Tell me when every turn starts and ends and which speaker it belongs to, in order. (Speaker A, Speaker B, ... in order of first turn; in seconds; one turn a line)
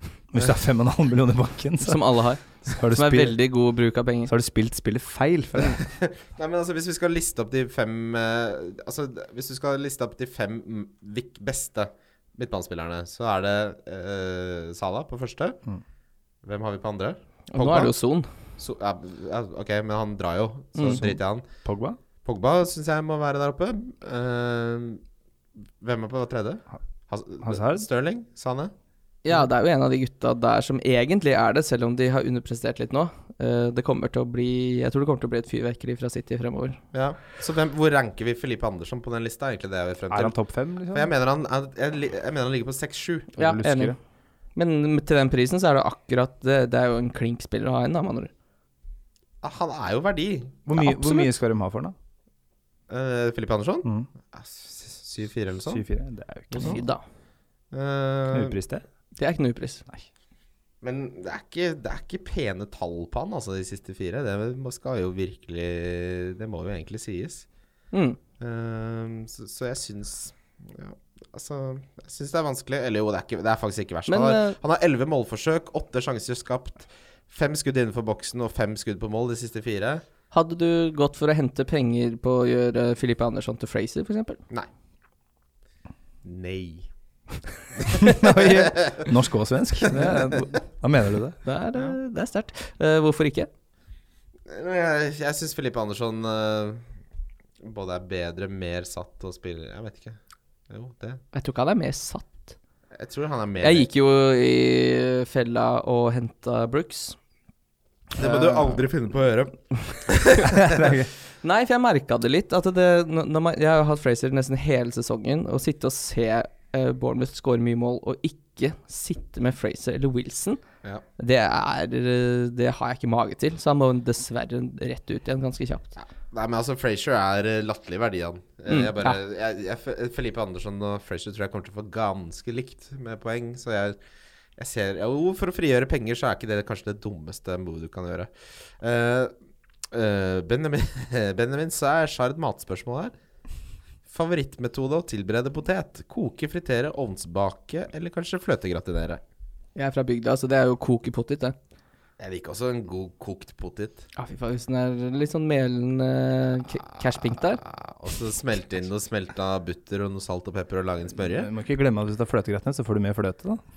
Speaker A: 0.3-2.0
Speaker B: 1.8-4.3
Speaker A: 2.6-3.4
Speaker A: 4.2-5.8
Speaker C: 5.8-15.6
Speaker C: 16.4-17.9
Speaker B: 17.5-18.3
Speaker C: 18.6-21.4
Speaker A: 20.9-22.0
Speaker C: 22.2-25.0
Speaker C: 25.8-28.7
Speaker A: 27.4-27.9
Speaker B: 29.2-36.8
Speaker C: 36.9-40.3
Speaker A: 40.1-41.1
Speaker C: 40.9-43.4
Speaker B: 43.4-44.0
Speaker A: 43.4-44.0
Speaker B: 44.5-48.3
Speaker C: 49.4-50.7
Speaker A: 50.6-51.9
Speaker B: 50.8-51.3
Speaker C: 52.9-55.8
Speaker A: 55.7-56.8
Speaker B: 56.5-57.0
Speaker C: 57.7-58.6
Speaker A: 58.3-58.8
Speaker B: 59.2-59.8
Speaker C: 60.8-67.4
Speaker B: 67.9-68.2
Speaker C: 68.4-80.0
Speaker B: 74.1-74.6
Speaker B: 80.3-84.4
Speaker C: 86.2-86.9
Speaker C: 87.8-89.0
Speaker A: 87.9-91.4
Speaker B: 89.9-90.3
Speaker B: 91.4-93.5
Speaker C: 94.5-96.8
Speaker C: 97.6-100.2
Speaker C: 100.7-101.2
Speaker B: 101.3-102.5
Speaker C: 102.9-103.9
Speaker B: 103.6-107.2
Speaker C: 108.2-110.6
Speaker B: 108.2-108.7
Speaker A: 110.5-111.1
Speaker B: 111.4-120.6
Speaker B: 121.2-125.9
Speaker C: 126.0-134.0
Speaker B: 128.7-129.2
Speaker C: 134.6-139.3
Speaker C: 139.9-143.1
Speaker C: 144.1-149.2
Speaker B: 149.8-151.6
Speaker C: 152.2-154.0
Speaker B: 154.2-157.6
Speaker C: 157.2-161.5
Speaker A: 161.3-163.6